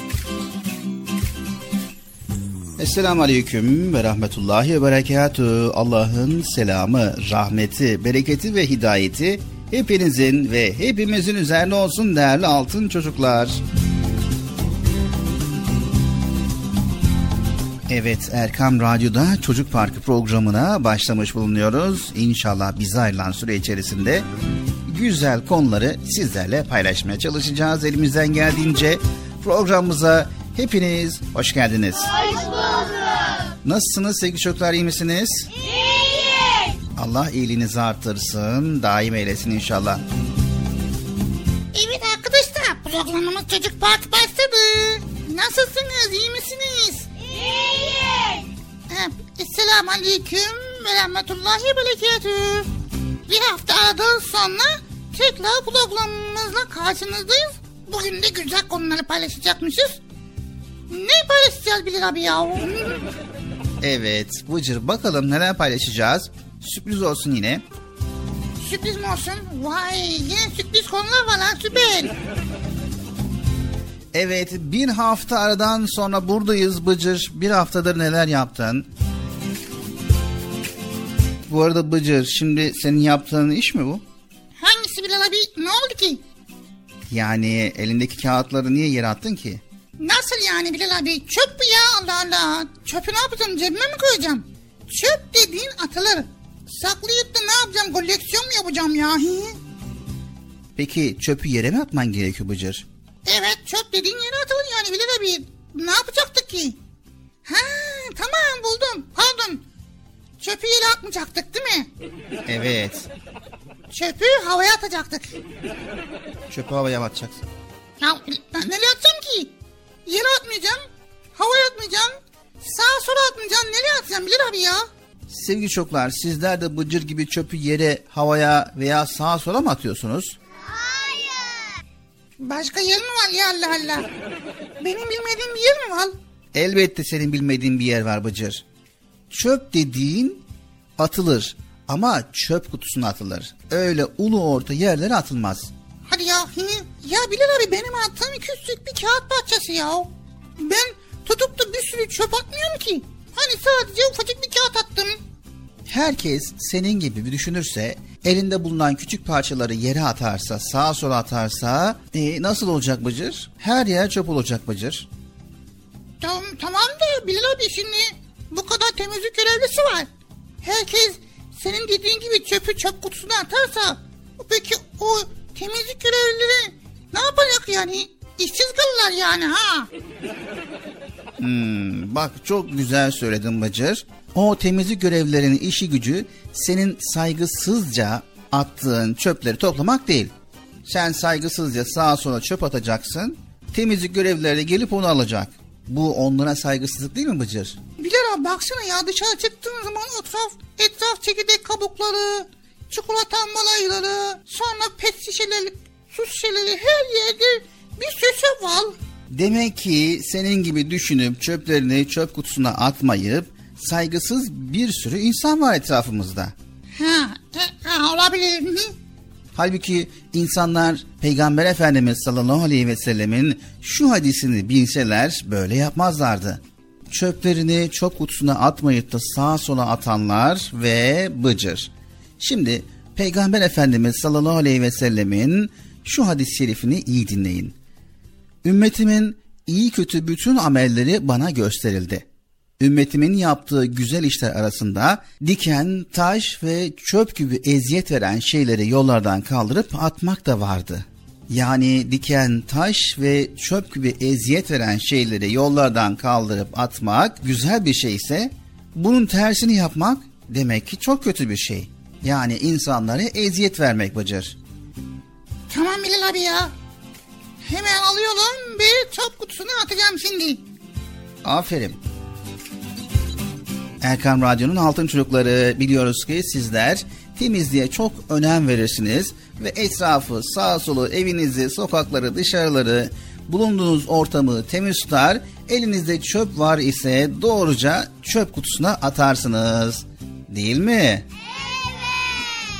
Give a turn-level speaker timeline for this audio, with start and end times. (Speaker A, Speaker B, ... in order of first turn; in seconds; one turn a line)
Speaker A: 2.8-13.6
Speaker A: 17.9-24.2
Speaker A: 24.9-32.1
Speaker B: 32.2-32.9
Speaker A: 33.6-35.5
Speaker B: 35.8-36.4
Speaker A: 37.0-40.0
Speaker C: 41.7-47.1
Speaker B: 47.3-48.4
Speaker C: 48.9-52.7
Speaker C: 53.3-60.0
Speaker C: 60.9-63.0
Speaker A: 63.8-67.6
Speaker C: 68.6-72.1
Speaker A: 74.1-78.9
Speaker A: 81.5-84.0
Speaker C: 84.6-86.2
Speaker A: 87.1-89.6
Speaker C: 90.0-99.5
Speaker A: 100.8-102.8
Speaker C: 103.2-106.8
Speaker C: 107.5-109.6
Speaker C: 110.4-111.9
Speaker A: 112.5-113.0
Speaker C: 113.9-115.3
Speaker A: 116.5-117.4
Speaker C: 118.0-119.5
Speaker C: 120.1-120.8
Speaker C: 121.3-124.8
Speaker A: 125.3-130.3
Speaker B: 130.7-131.6
Speaker C: 132.4-134.1
Speaker C: 134.8-136.1
Speaker A: 136.5-138.6
Speaker A: 139.3-140.4
Speaker A: 141.0-145.7
Speaker C: 146.1-155.2
Speaker A: 155.9-165.1
Speaker C: 166.2-170.1
Speaker C: 170.6-179.9
Speaker A: 181.4-190.3
Speaker A: 190.8-197.8
Speaker C: 198.0-208.9
Speaker A: 209.3-216.5
Speaker C: 217.0-218.9
Speaker A: 219.5-237.7
Speaker A: 238.6-242.2
Speaker A: 242.8-264.6
Speaker C: 265.7-266.7
Speaker C: 267.6-270.6
Speaker A: 271.4-272.0
Speaker A: 274.0-291.2
Speaker B: 291.6-292.3